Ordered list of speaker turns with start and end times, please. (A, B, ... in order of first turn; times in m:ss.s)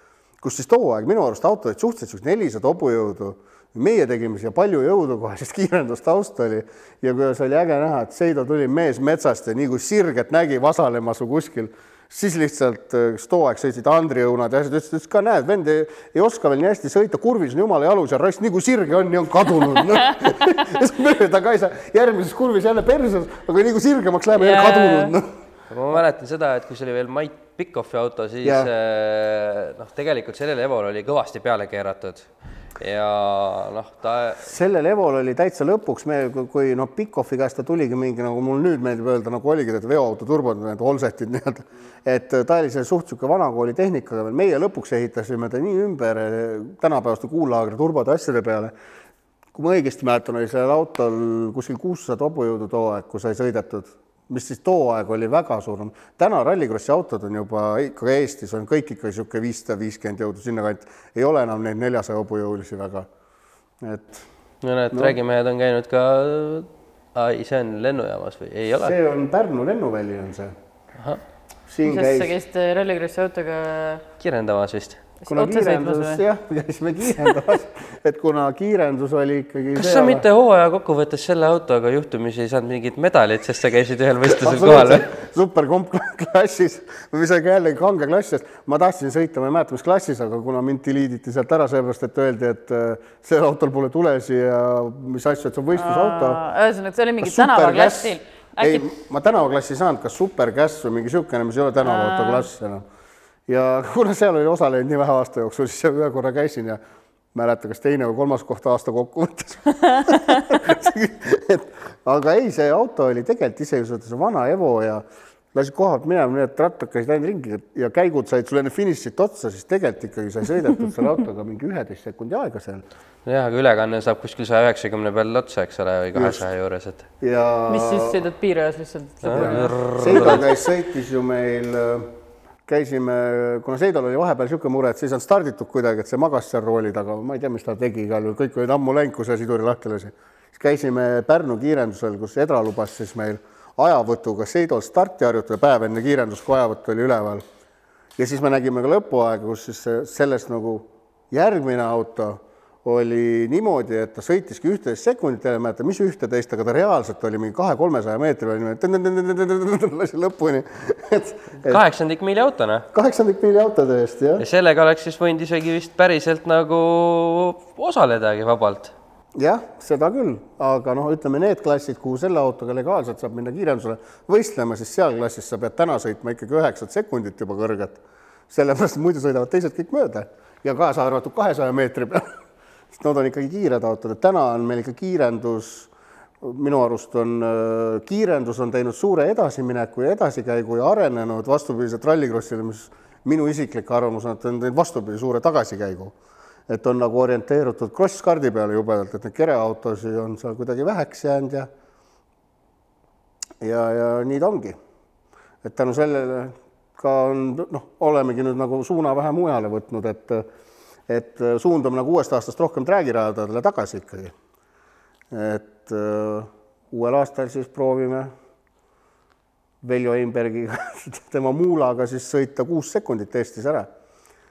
0:00.4-0:25.3 A
0:24.4-0:25.1 B
0:25.7-0:32.3 C
0:28.4-0:28.7 A
0:32.8-0:34.5 C
0:34.4-0:48.7 A
0:49.5-1:03.1 A
1:03.8-1:04.3 A
1:04.6-1:09.0 C
1:08.8-1:10.5 A
1:11.7-1:12.3 A
1:11.8-1:14.0 B
1:14.2-1:15.0 C
1:15.2-1:16.2 B
1:15.3-1:20.3 A
1:19.8-1:25.1 C
1:24.3-1:36.4 A
1:35.7-1:38.9 B
1:37.2-1:42.8 A
1:41.8-1:42.5 B
1:43.5-1:46.8 A
1:47.3-2:02.8 A
1:49.9-1:50.4 B
2:03.2-2:07.1 C
2:06.1-2:06.4 A
2:07.2-2:08.2 A
2:07.7-2:10.4 B
2:09.2-2:10.5 C
2:09.4-2:12.1 A
2:12.7-2:27.4 A
2:28.2-2:41.8 A
2:41.6-2:42.8 C
2:42.9-2:44.4 A
2:44.4-2:48.9 C
2:49.4-3:02.2 A
3:02.9-3:16.2 A
3:16.7-3:21.7 A
3:23.6-3:24.8 A
3:25.6-3:30.4 A
3:31.1-3:34.3 A
3:35.3-3:38.3 A
3:39.8-3:43.9 A